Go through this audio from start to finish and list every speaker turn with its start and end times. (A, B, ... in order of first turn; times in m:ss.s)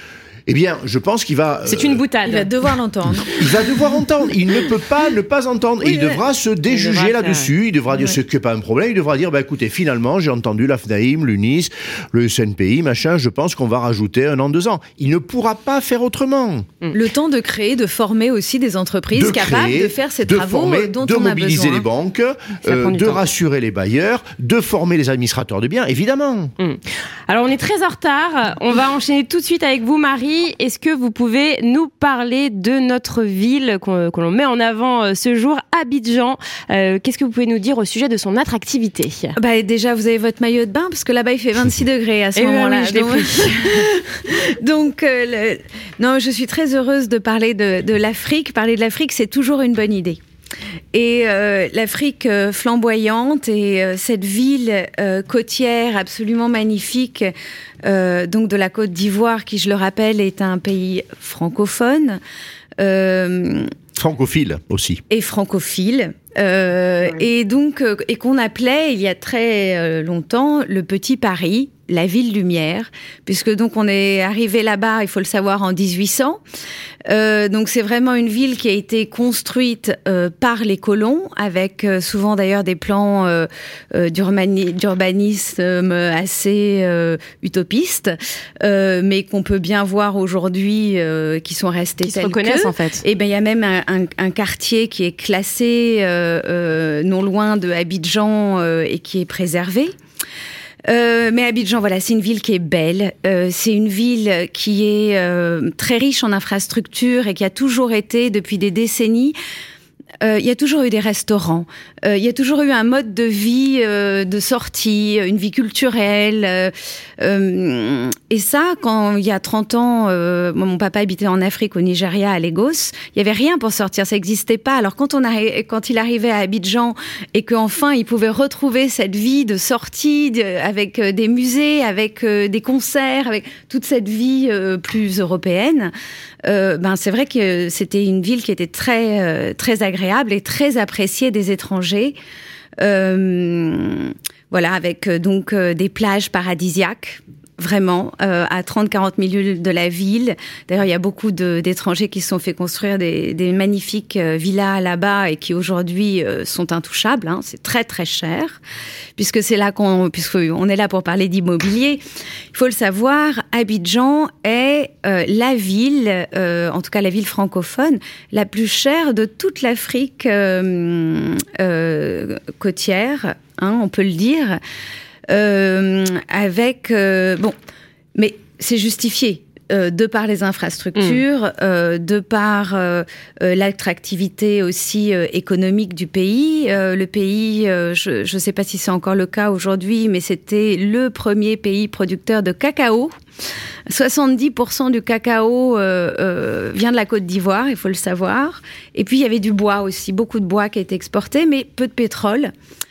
0:00.5-0:02.0 A
0:01.7-0:02.5 B
0:02.3-0:03.4 C
0:03.3-0:16.7 A
0:05.8-0:06.2 C
0:06.7-0:07.5 B
0:16.9-0:21.9 C
0:19.1-0:26.5 A
0:22.6-0:23.2 B
0:26.6-0:39.4 B
0:39.4-0:50.2 C
0:42.4-0:43.9 B
0:50.9-0:57.3 C
0:57.8-1:02.2 C
1:02.8-1:03.7 C
1:04.0-1:05.0 A
1:05.1-1:16.4 C
1:17.1-1:39.9 C
1:32.0-1:33.0 B
1:40.9-1:49.4 C
1:50.2-2:15.9 C
2:16.4-2:22.2 C
2:22.8-2:38.6 C
2:39.2-2:42.0 C
2:42.5-2:54.6 C
2:55.3-2:57.6 C
2:58.2-3:13.2 C
3:13.9-3:22.5 C